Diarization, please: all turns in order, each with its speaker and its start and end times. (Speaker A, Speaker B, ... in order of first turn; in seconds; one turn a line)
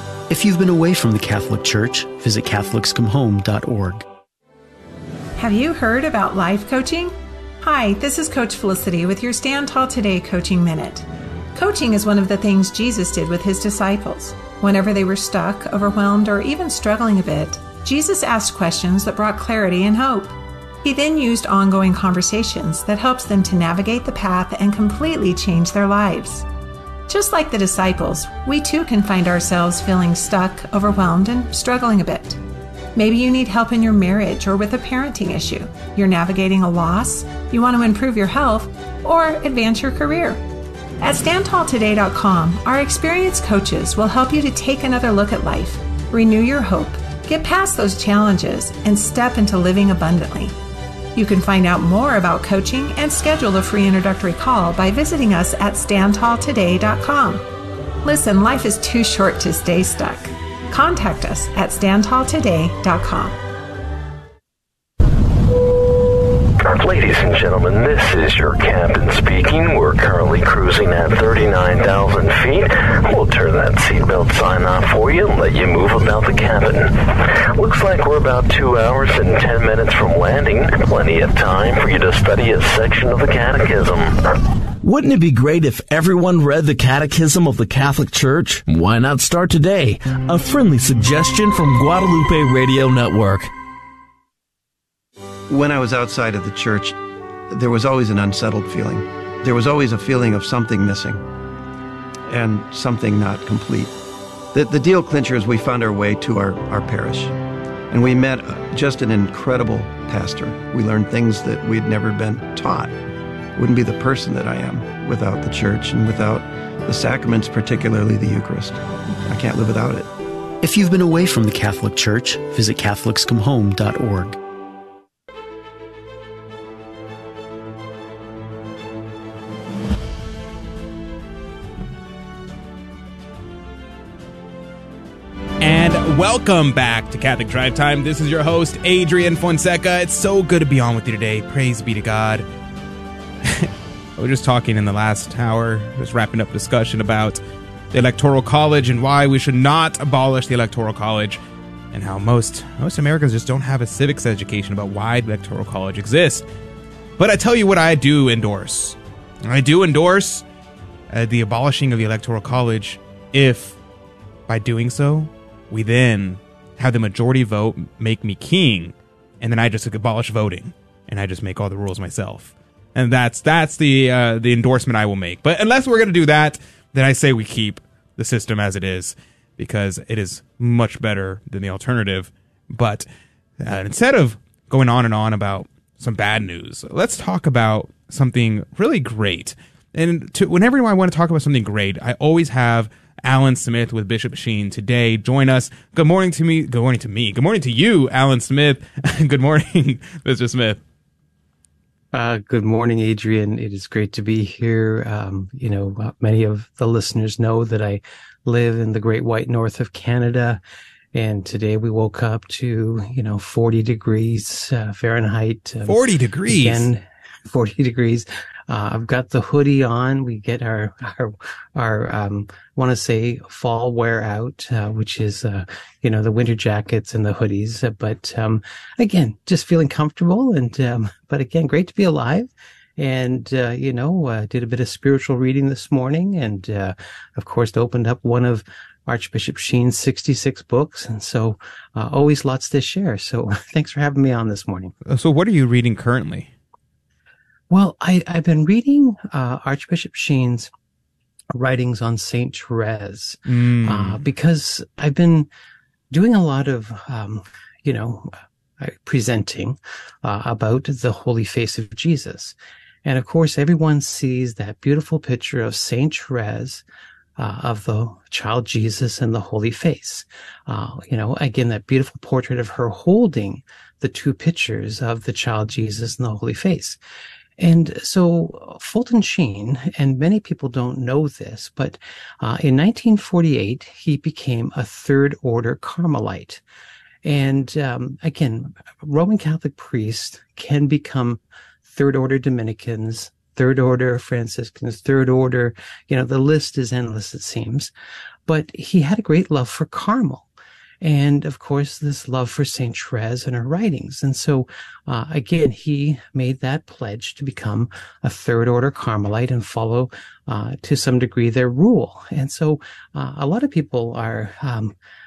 Speaker A: 0.3-4.0
Speaker B: 5.4-26.5
Speaker B: 27.1-32.4
Speaker B: 32.9-40.4
Speaker B: 41.0-50.5
Speaker B: 51.1-57.4
Speaker B: 58.0-63.4
Speaker C: 66.6-84.2
Speaker D: 84.8-93.5
Speaker E: 95.5-97.0
Speaker E: 97.5-101.2
Speaker E: 102.3-103.9
Speaker E: 104.5-107.3
Speaker E: 107.9-112.9
Speaker E: 113.5-120.1
Speaker A: 120.6-124.4
Speaker F: 135.6-142.4
Speaker F: 143.4-147.4
Speaker F: 147.9-151.4
Speaker F: 151.9-156.4
Speaker F: 157.2-160.4
Speaker F: 161.1-163.8
Speaker F: 164.5-183.1
Speaker F: 183.6-200.8
Speaker G: 202.1-210.6
Speaker G: 211.1-244.9
Speaker F: 215.8-216.8
Speaker F: 245.1-246.5
Speaker G: 247.7-250.7
Speaker G: 251.5-255.5
Speaker F: 253.5-254.2
Speaker G: 256.1-266.8
Speaker G: 267.4-277.0
Speaker G: 277.6-286.6
Speaker G: 287.2-297.9
Speaker G: 298.5-300.5
Speaker G: 301.0-314.9